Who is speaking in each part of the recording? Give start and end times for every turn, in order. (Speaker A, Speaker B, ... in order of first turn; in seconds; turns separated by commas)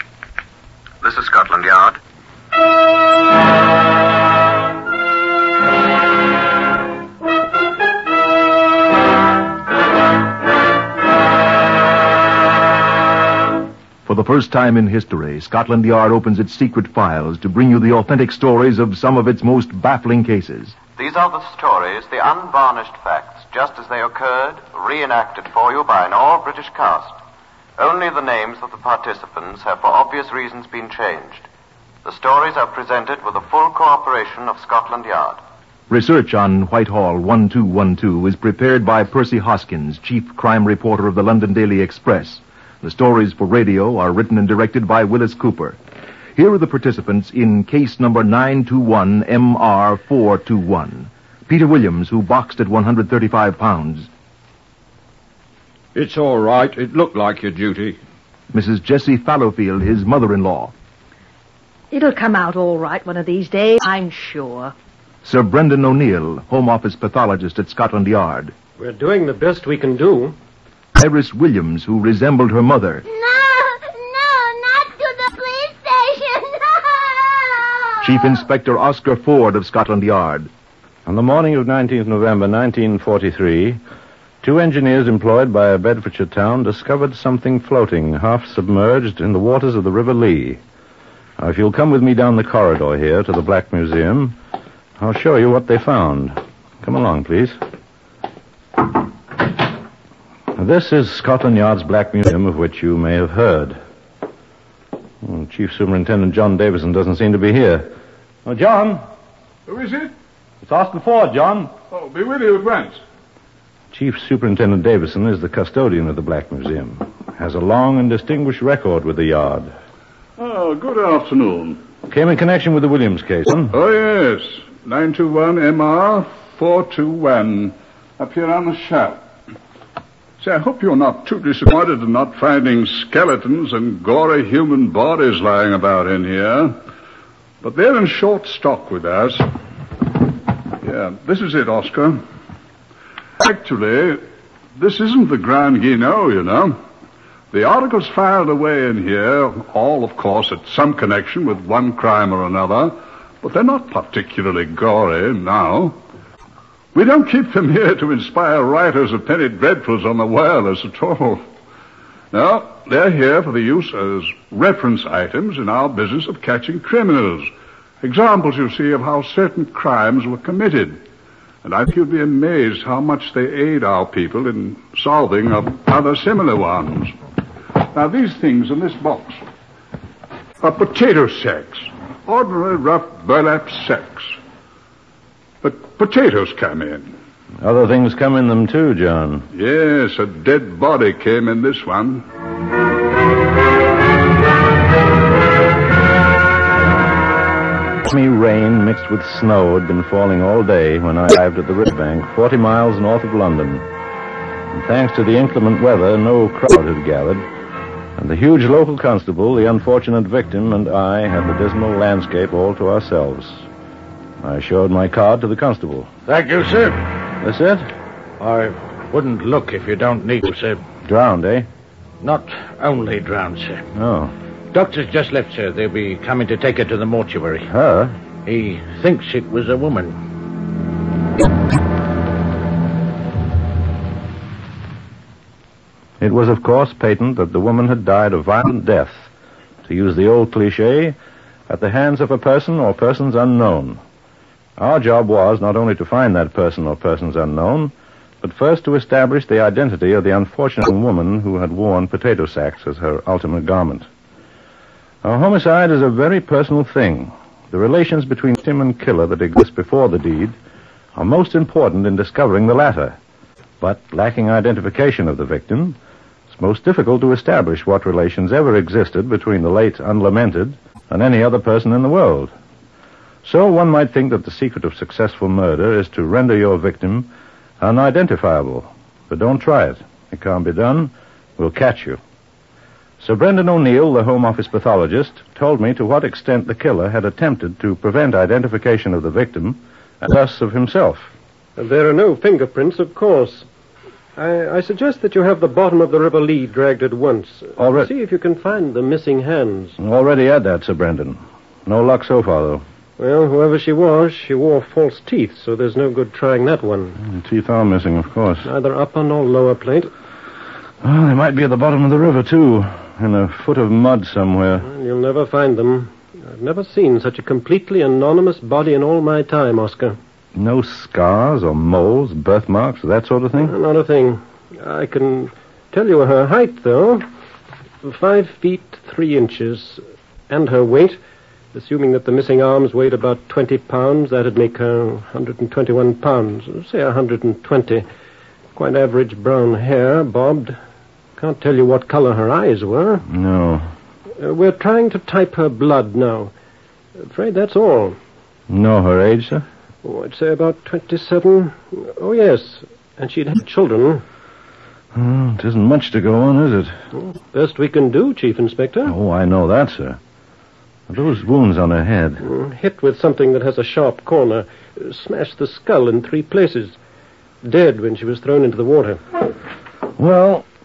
Speaker A: 1.0-2.0, Speaker B: 14.1-20.8, Speaker A: 21.0-27.2, Speaker A: 27.8-31.5, Speaker A: 32.0-35.4, Speaker B: 35.9-45.8, Speaker B: 46.4-54.1, Speaker C: 56.0-58.0, Speaker B: 58.5-60.7, Speaker D: 61.9-64.7, Speaker B: 65.2-68.5, Speaker E: 68.8-70.4, Speaker B: 71.0-73.0, Speaker F: 73.1-77.9, Speaker B: 78.0-80.5, Speaker G: 81.1-83.8, Speaker G: 84.4-90.6, Speaker G: 91.4-94.4, Speaker G: 95.0-97.6, Speaker G: 100.6-103.8, Speaker G: 105.2-107.9, Speaker G: 108.5-109.0, Speaker H: 109.7-110.1, Speaker G: 110.6-111.7, Speaker H: 111.9-113.0, Speaker G: 113.9-119.8, Speaker H: 120.4-121.8, Speaker G: 122.1-123.7, Speaker H: 123.7-129.2, Speaker H: 130.4-136.8, Speaker H: 137.6-139.5, Speaker H: 140.8-142.2, Speaker H: 143.4-144.2, Speaker H: 144.8-146.8, Speaker H: 147.5-156.0, Speaker H: 156.9-161.4, Speaker H: 162.3-167.5, Speaker H: 168.0-171.0, Speaker H: 171.6-177.1, Speaker H: 177.9-179.4, Speaker H: 180.6-184.3, Speaker H: 185.6-187.2, Speaker G: 187.6-189.5, Speaker H: 189.5-192.2, Speaker G: 198.0-203.9, Speaker G: 204.7-207.5, Speaker G: 208.2-213.7, Speaker G: 214.4-216.1, Speaker I: 216.3-217.1, Speaker G: 217.4-217.9, Speaker I: 218.4-220.8, Speaker G: 221.0-221.7, Speaker I: 222.2-223.8, Speaker G: 223.9-224.3, Speaker I: 224.7-227.7, Speaker G: 227.7-228.2, Speaker I: 228.5-230.2, Speaker G: 236.2-239.3, Speaker G: 239.8-241.2, Speaker G: 241.7-244.0, Speaker G: 244.8-254.1, Speaker G: 255.2-260.6, Speaker G: 261.1-263.2, Speaker G: 263.8-266.0, Speaker G: 266.5-272.5, Speaker G: 273.4-282.2, Speaker G: 283.2-291.3, Speaker E: 291.8-293.7, Speaker E: 294.4-300.0, Speaker G: 297.8-298.1, Speaker G: 300.0-302.8, Speaker E: 303.2-307.2, Speaker G: 307.2-308.7, Speaker E: 308.6-310.1, Speaker G: 311.0-314.9, Speaker E: 314.8-320.2, Speaker G: 320.6-323.8, Speaker E: 323.6-327.3, Speaker E: 328.0-331.2, Speaker E: 331.7-338.1, Speaker E: 338.8-340.8, Speaker E: 341.4-343.3, Speaker G: 343.3-343.9, Speaker E: 344.4-346.5, Speaker E: 347.2-348.2, Speaker G: 348.7-349.7, Speaker E: 350.0-354.2, Speaker G: 355.1-356.9, Speaker E: 357.2-359.1, Speaker G: 359.1-360.2, Speaker G: 361.1-362.4, Speaker E: 362.4-367.0, Speaker E: 367.6-369.2, Speaker G: 370.2-370.7